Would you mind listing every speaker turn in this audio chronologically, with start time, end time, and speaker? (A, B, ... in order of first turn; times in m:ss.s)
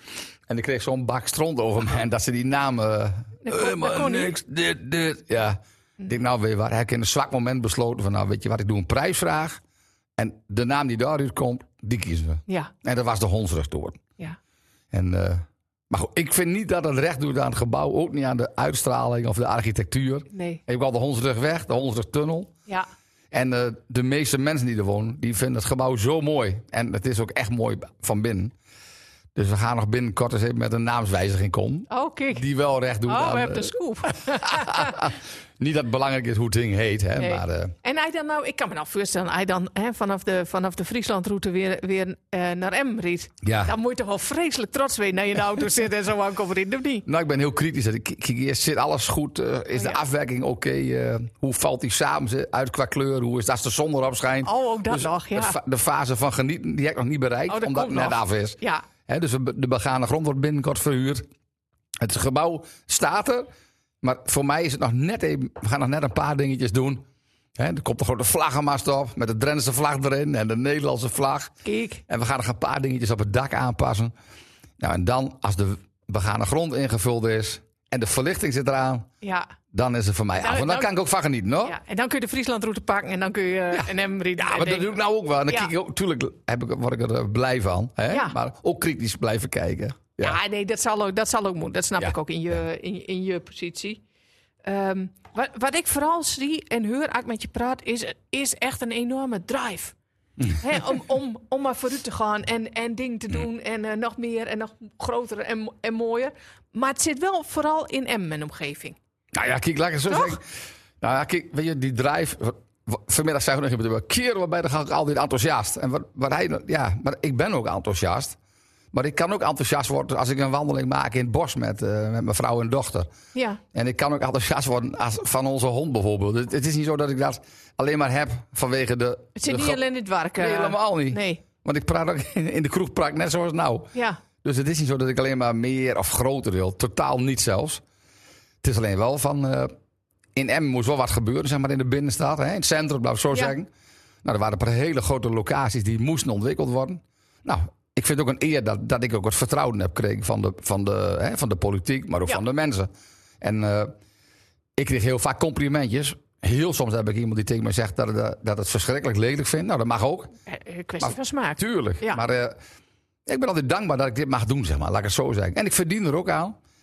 0:00.5-0:09.6 A
0:03.4-0:04.4 B
0:10.2-0:14.0 A
0:14.9-0:22.5 A
0:20.3-0:20.6 B
0:23.3-0:28.5 A
0:29.4-0:37.7 A
0:31.9-0:32.4 B
0:33.0-0:35.0 B
0:37.2-0:47.1 B
0:43.4-0:43.8 A
0:47.1-1:01.2 A
0:49.8-0:50.0 B
0:54.4-0:55.6 B
0:57.5-0:58.8 B
1:02.0-1:03.5 A
1:04.0-1:07.0 A
1:07.6-1:11.5 A
1:11.6-1:12.0 B
1:12.1-1:14.1 A
1:14.8-1:19.1 A
1:19.2-1:19.5 B
1:19.7-1:21.8 A
1:20.4-1:20.9 B
1:21.6-1:24.9 B
1:23.7-1:30.4 A
1:28.1-1:28.4 B
1:30.2-1:34.0 B
1:34.6-1:40.0 B
1:40.6-1:49.0 B
1:49.3-1:50.5 A
1:50.1-1:50.4 B
1:51.0-1:58.4 A
1:58.9-2:03.1 A
2:03.3-2:03.6 B
2:03.7-2:09.8 A
2:09.4-2:11.4 B
2:10.4-2:17.8 A
2:13.9-2:14.2 B
2:18.6-2:19.7 A
2:20.4-2:23.7 A
2:24.2-2:32.9 A
2:33.4-2:34.0 A
2:34.8-2:40.3 A
2:40.5-2:42.2 B
2:41.0-2:42.6 A
2:43.3-2:46.6 A